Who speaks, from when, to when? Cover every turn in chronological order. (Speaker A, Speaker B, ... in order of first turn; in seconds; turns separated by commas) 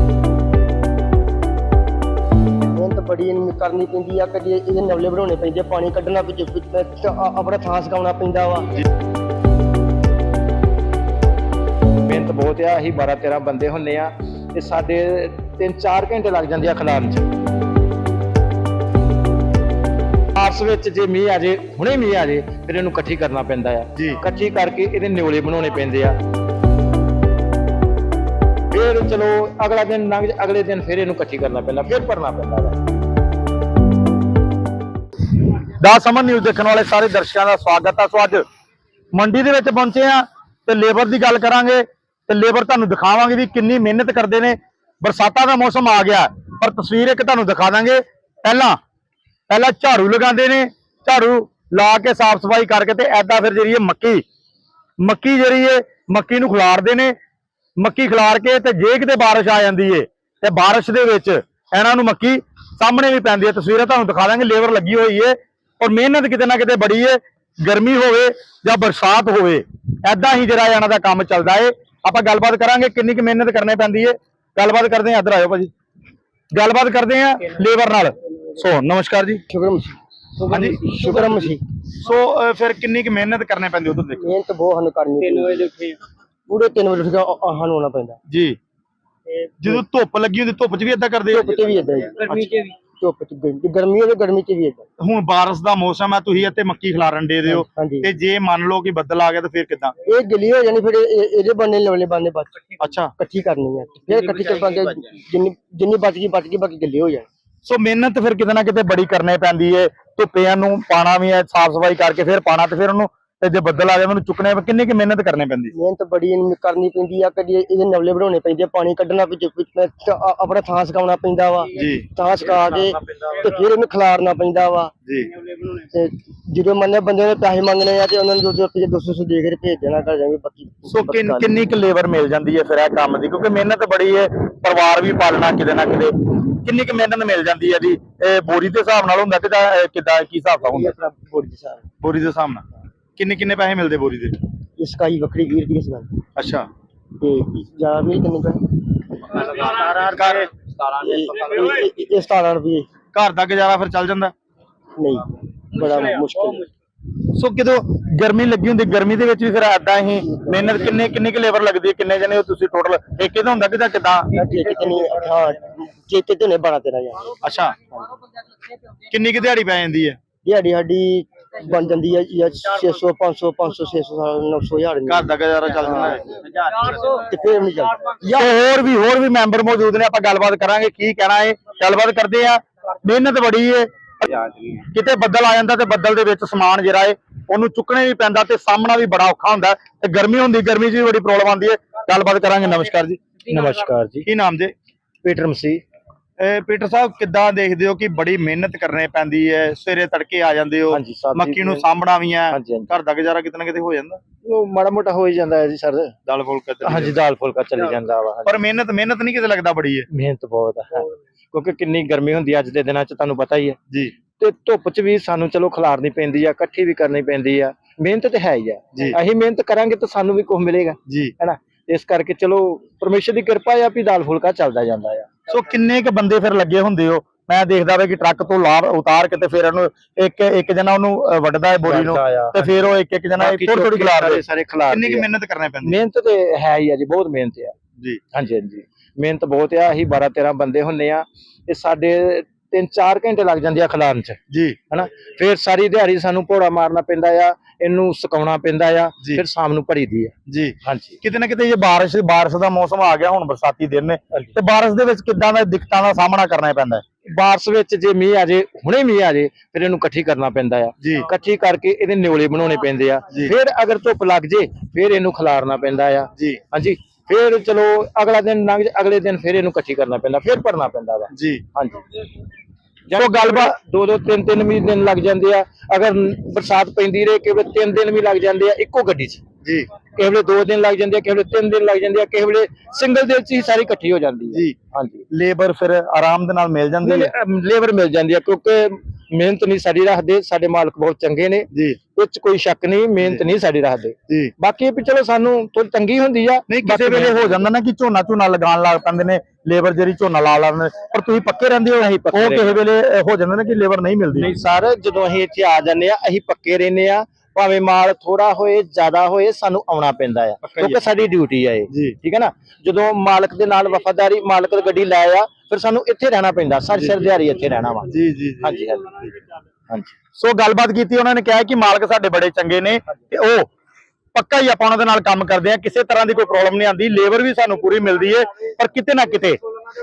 Speaker A: 2.7-8.7, Speaker B: 12.1-17.3, Speaker B: 20.4-26.2, Speaker C: 24.0-24.2, Speaker B: 28.7-32.8, Speaker C: 35.8-38.4, Speaker C: 39.1-48.8, Speaker C: 49.5-54.2, Speaker C: 55.0-57.2, Speaker C: 57.8-75.7, Speaker C: 76.5-79.4, Speaker A: 79.5-80.0, Speaker C: 80.5-80.8, Speaker A: 80.7-81.6, Speaker B: 81.0-81.3, Speaker C: 82.0-84.2, Speaker A: 84.2-85.9, Speaker A: 86.5-88.2, Speaker C: 88.3-88.6, Speaker C: 89.6-91.8, Speaker A: 91.3-94.9, Speaker C: 95.0-100.0, Speaker A: 97.5-98.1, Speaker A: 100.0-102.6, Speaker C: 102.8-103.1, Speaker A: 103.2-107.3, Speaker C: 107.7-115.7, Speaker A: 115.7-124.9, Speaker C: 121.7-122.1, Speaker C: 125.0-125.3, Speaker A: 125.6-131.5, Speaker C: 130.9-140.9, Speaker A: 140.7-141.8, Speaker C: 142.0-142.6, Speaker C: 143.2-144.4, Speaker A: 144.8-146.2, Speaker C: 146.4-146.7, Speaker A: 147.2-148.7, Speaker C: 149.9-150.5, Speaker A: 150.8-152.9, Speaker C: 153.1-154.3, Speaker A: 155.0-156.7, Speaker C: 157.3-164.3, Speaker A: 160.3-160.6, Speaker A: 164.3-167.4, Speaker C: 167.4-167.8, Speaker C: 169.1-170.2, Speaker A: 170.4-178.4, Speaker C: 175.1-176.9, Speaker C: 178.2-183.9, Speaker C: 184.7-193.2, Speaker B: 193.4-194.3, Speaker C: 194.2-194.7, Speaker B: 195.2-195.8, Speaker C: 196.4-204.2, Speaker B: 200.9-201.8, Speaker B: 202.5-202.9, Speaker B: 204.4-206.1, Speaker C: 206.3-207.2, Speaker B: 206.8-208.6, Speaker C: 208.5-210.1, Speaker B: 210.1-213.8, Speaker C: 213.9-214.2, Speaker B: 214.4-225.3, Speaker C: 221.1-221.3, Speaker C: 225.5-236.0, Speaker B: 231.8-235.3, Speaker B: 235.8-237.8, Speaker B: 238.3-244.4, Speaker C: 244.5-244.8, Speaker B: 244.9-250.3, Speaker C: 250.5-257.0, Speaker B: 250.8-251.2, Speaker B: 257.3-272.0, Speaker C: 261.0-261.3, Speaker C: 271.3-271.6, Speaker B: 273.1-279.4, Speaker C: 273.1-273.7, Speaker B: 280.2-285.2, Speaker C: 285.3-287.3, Speaker B: 287.0-297.7, Speaker C: 291.7-292.0, Speaker C: 293.2-293.4, Speaker C: 296.7-304.5, Speaker B: 302.0-302.8, Speaker B: 304.4-319.3, Speaker C: 310.6-311.0, Speaker C: 318.1-318.8, Speaker B: 319.9-320.1, Speaker C: 320.4-323.7, Speaker C: 324.4-329.6